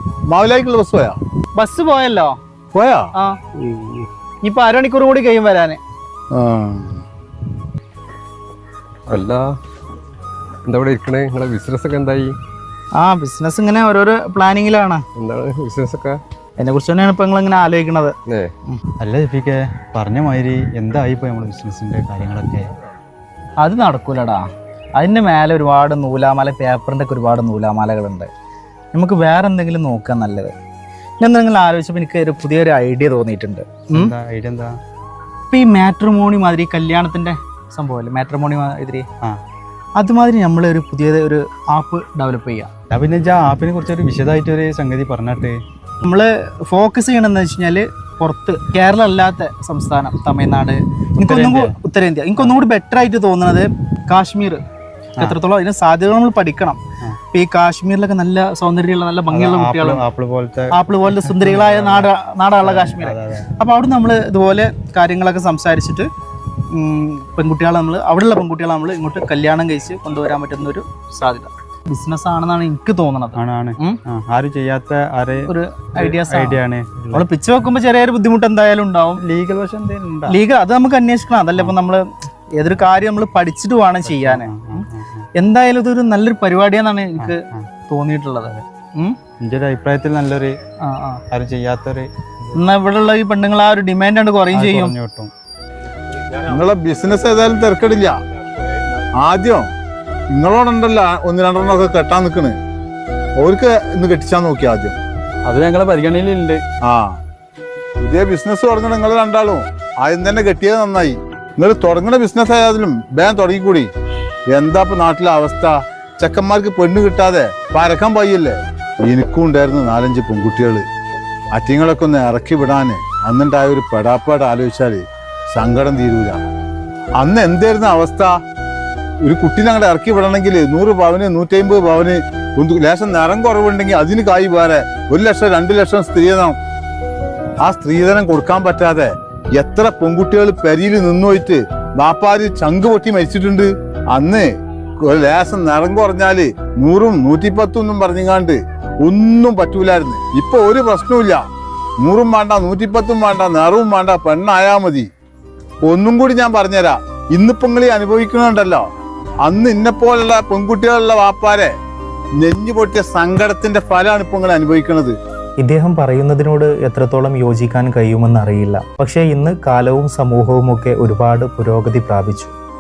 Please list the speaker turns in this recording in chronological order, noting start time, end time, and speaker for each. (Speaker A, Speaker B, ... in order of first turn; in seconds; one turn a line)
Speaker A: 0.3-1.2
Speaker B: 1.6-2.4
Speaker A: 2.7-3.1
Speaker C: 3.6-4.1
Speaker B: 4.4-5.8
Speaker A: 6.3-7.0
Speaker C: 9.1-9.5
Speaker C: 10.7-12.4
Speaker B: 12.9-15.0
Speaker C: 15.2-16.2
Speaker B: 16.6-18.1
Speaker C: 18.3-18.5
Speaker D: 19.0-22.7
Speaker B: 23.6-28.3
Speaker B: 28.9-30.5
Speaker B: 31.2-34.1
Speaker D: 34.0-34.8
Speaker B: 35.5-39.1
Speaker B: 40.0-42.7
Speaker D: 42.9-45.6
Speaker B: 46.0-54.6
Speaker D: 51.3-51.7
Speaker B: 55.2-56.8
Speaker B: 57.3-60.0
Speaker D: 59.3-62.1
Speaker B: 60.7-66.1
Speaker D: 62.6-63.5
Speaker B: 66.7-74.0
Speaker D: 73.4-77.3
Speaker B: 75.5-76.6
Speaker B: 77.1-79.2
Speaker D: 79.2-80.4
Speaker B: 80.3-82.0
Speaker B: 82.5-89.2
Speaker D: 84.0-85.3
Speaker D: 87.2-87.7
Speaker D: 89.4-90.6
Speaker B: 90.8-91.2
Speaker D: 91.3-92.6
Speaker B: 92.5-95.0
Speaker D: 94.5-95.3
Speaker A: 96.4-98.2
Speaker A: 99.2-99.7
Speaker A: 100.3-102.6
Speaker A: 103.4-105.0
Speaker D: 105.5-106.6
Speaker A: 106.8-107.2
Speaker A: 108.0-113.9
Speaker A: 114.5-120.9
Speaker A: 121.5-126.4
Speaker A: 127.2-128.3
Speaker A: 129.2-136.6
Speaker A: 137.6-151.4
Speaker A: 152.0-155.1
Speaker A: 155.9-158.9
Speaker A: 159.4-161.7
Speaker A: 162.4-165.2
Speaker E: 165.6-172.5